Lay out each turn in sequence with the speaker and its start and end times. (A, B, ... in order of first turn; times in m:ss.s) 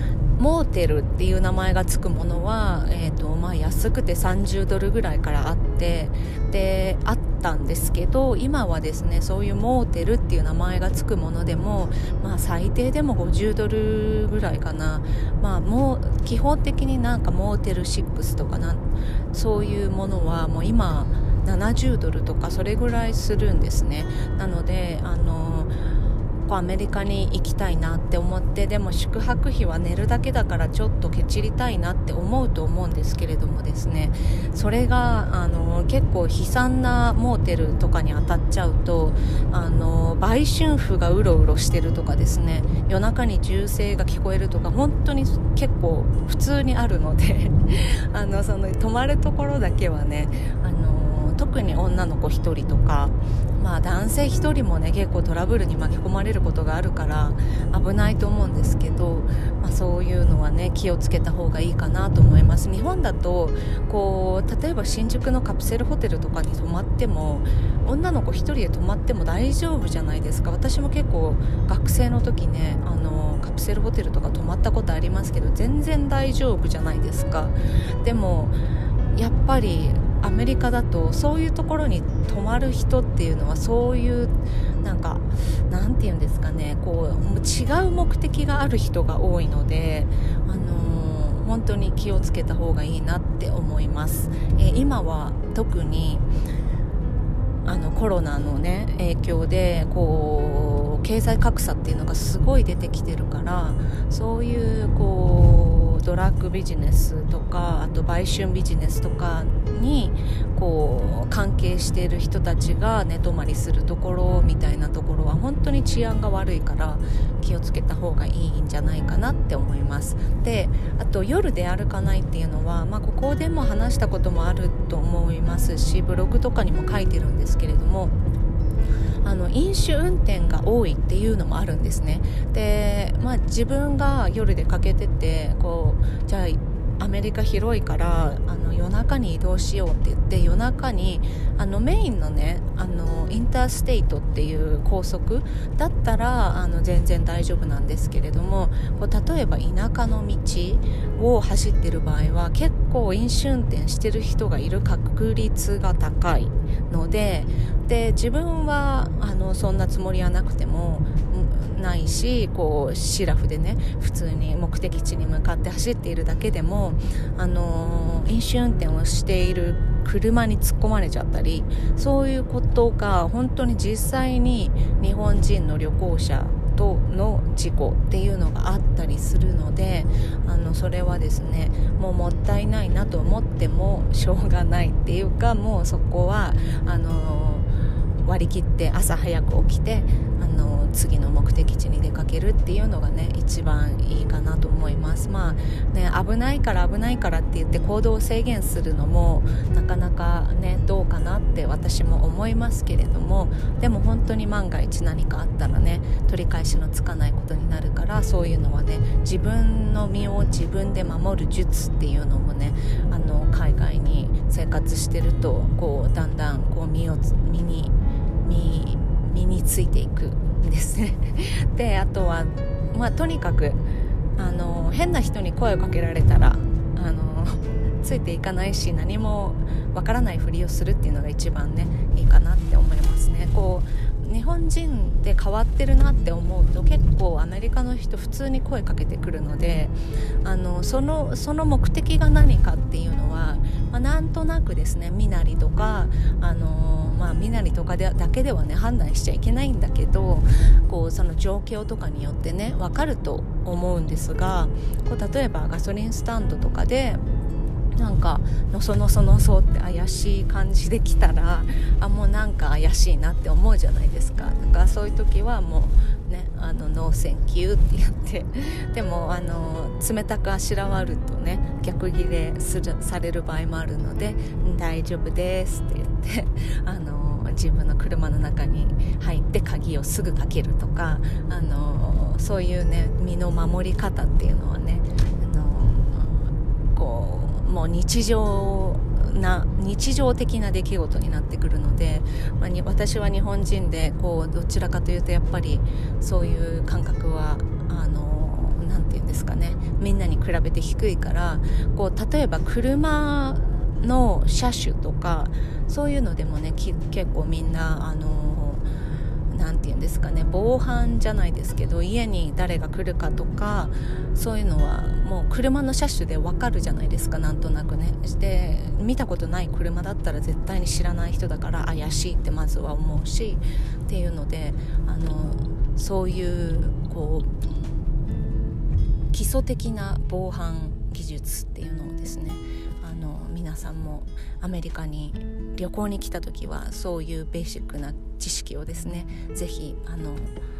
0:00.4-0:25.7 A
0:26.5-1:18.6 A
1:19.1-1:36.2 A
1:37.6-2:08.1 A
2:09.2-3:07.7 A
3:08.2-3:43.8 A
3:44.4-4:17.2 A
4:18.0-5:08.8 A
5:09.5-5:27.9 A
5:29.3-5:40.5 A